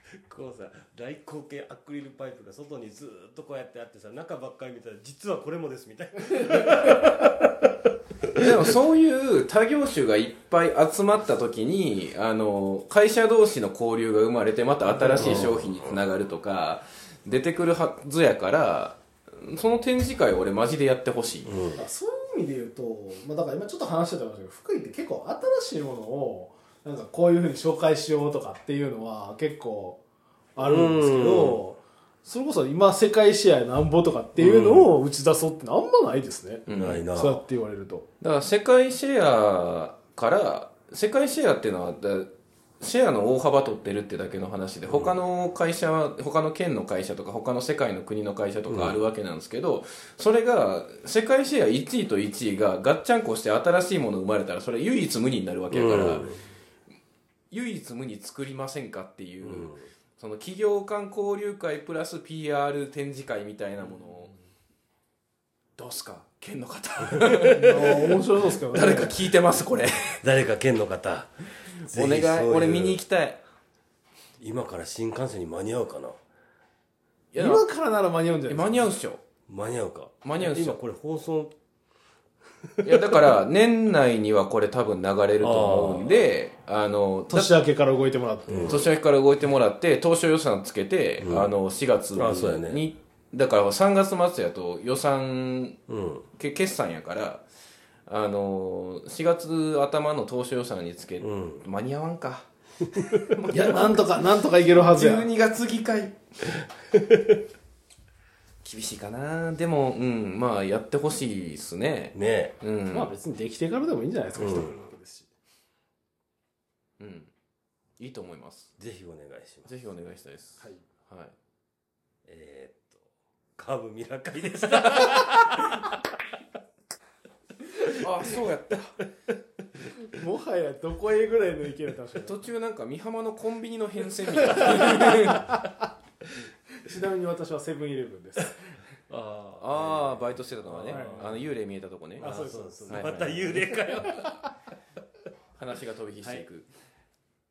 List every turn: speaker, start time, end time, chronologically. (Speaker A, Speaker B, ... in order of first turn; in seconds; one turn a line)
Speaker A: 0.2-7.7
Speaker B: 8.3-21.6
Speaker C: 14.9-15.5
Speaker A: 15.1-16.0
Speaker A: 21.4-21.9
Speaker C: 21.7-30.0
Speaker C: 30.6-38.1
Speaker A: 30.6-31.6
Speaker A: 34.4-34.9
Speaker B: 36.7-37.1
Speaker A: 36.7-37.4
Speaker B: 38.2-56.3
Speaker A: 48.7-49.0
Speaker A: 55.7-56.4
Speaker B: 57.5-64.3
Speaker A: 59.4-59.9
Speaker B: 65.8-70.2
Speaker C: 67.5-69.3
Speaker A: 70.2-73.0
Speaker B: 71.8-73.4
Speaker A: 74.4-76.2
Speaker B: 77.3-77.6
Speaker C: 77.4-78.9
Speaker B: 78.5-79.2
Speaker A: 79.5-81.5
Speaker B: 80.2-80.8
Speaker A: 82.7-83.2
Speaker B: 82.8-87.5
Speaker A: 85.4-86.1
Speaker C: 87.3-88.9
Speaker A: 88.5-88.9
Speaker B: 88.7-95.8
Speaker A: 91.2-91.5
Speaker A: 92.1-92.8
Speaker A: 95.9-96.2
Speaker B: 96.4-97.4
Speaker B: 98.1-106.2
Speaker A: 101.2-101.7
Speaker C: 103.5-105.3
Speaker A: 106.9-107.4
Speaker B: 108.6-113.1
Speaker A: 112.1-112.6
Speaker C: 112.9-115.3
Speaker A: 114.4-114.8
Speaker B: 117.0-117.3
Speaker B: 118.0-118.7
Speaker A: 118.8-119.7
Speaker B: 119.7-121.3
Speaker A: 122.3-123.1
Speaker A: 123.6-125.9
Speaker B: 128.0-129.0
Speaker C: 130.1-132.4
Speaker B: 132.2-135.6
Speaker C: 134.8-135.6
Speaker C: 136.8-138.8
Speaker A: 139.1-141.4
Speaker B: 139.6-142.3
Speaker C: 140.8-141.4
Speaker A: 142.2-144.3
Speaker C: 142.2-144.3
Speaker B: 142.9-143.7
Speaker B: 145.6-146.7